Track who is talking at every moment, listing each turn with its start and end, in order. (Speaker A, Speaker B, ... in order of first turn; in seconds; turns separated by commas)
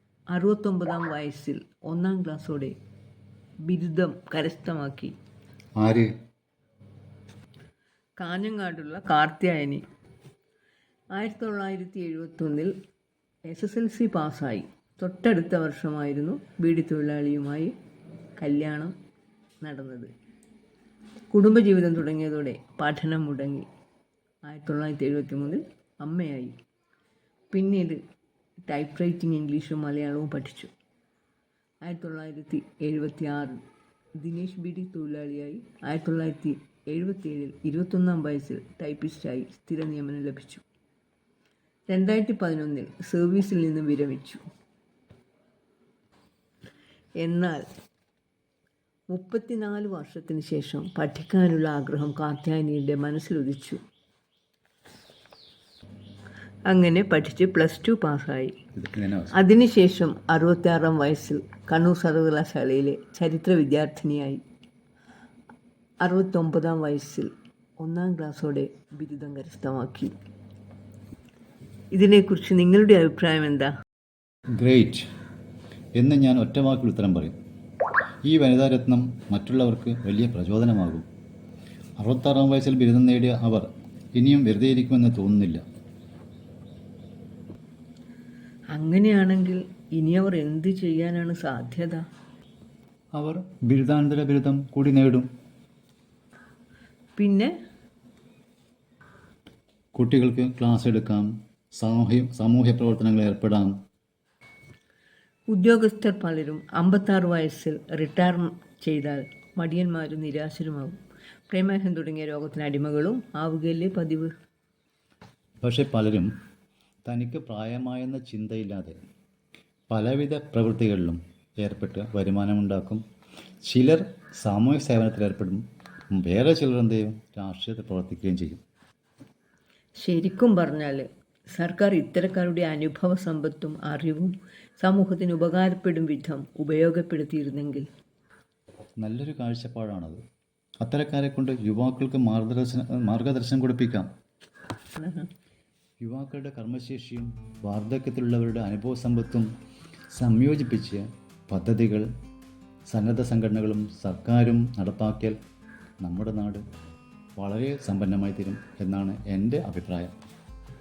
Speaker A: 0.3-2.8, Speaker A: 3.6-5.1, Speaker B: 5.8-6.1, Speaker A: 8.2-9.8, Speaker A: 11.1-12.7, Speaker A: 13.5-17.7, Speaker A: 18.4-18.9, Speaker A: 19.6-20.1, Speaker A: 21.3-23.7, Speaker A: 24.4-26.6, Speaker A: 27.5-28.0, Speaker A: 28.6-30.7, Speaker A: 31.8-33.6, Speaker A: 34.2-40.6, Speaker A: 41.9-44.4, Speaker A: 47.2-47.6, Speaker A: 49.1-53.8, Speaker A: 56.7-58.5, Speaker B: 58.8-59.4, Speaker A: 59.3-64.4, Speaker A: 66.0-70.1, Speaker A: 71.9-73.7, Speaker B: 74.6-75.1, Speaker B: 76.0-77.4, Speaker B: 78.2-81.1, Speaker B: 82.0-85.6, Speaker A: 88.7-92.0, Speaker B: 93.2-95.3, Speaker A: 97.2-97.5, Speaker B: 100.0-103.8, Speaker A: 105.5-111.0, Speaker A: 111.5-114.3, Speaker B: 115.6-116.3, Speaker B: 117.1-119.0, Speaker B: 119.9-123.0, Speaker B: 123.6-125.6, Speaker B: 126.1-128.6, Speaker A: 130.0-137.9, Speaker B: 139.0-140.2, Speaker B: 140.8-144.1, Speaker A: 145.0-145.3, Speaker B: 146.0-149.5, Speaker B: 150.1-152.1, Speaker B: 152.9-155.4, Speaker B: 156.0-156.6, Speaker B: 157.4-160.1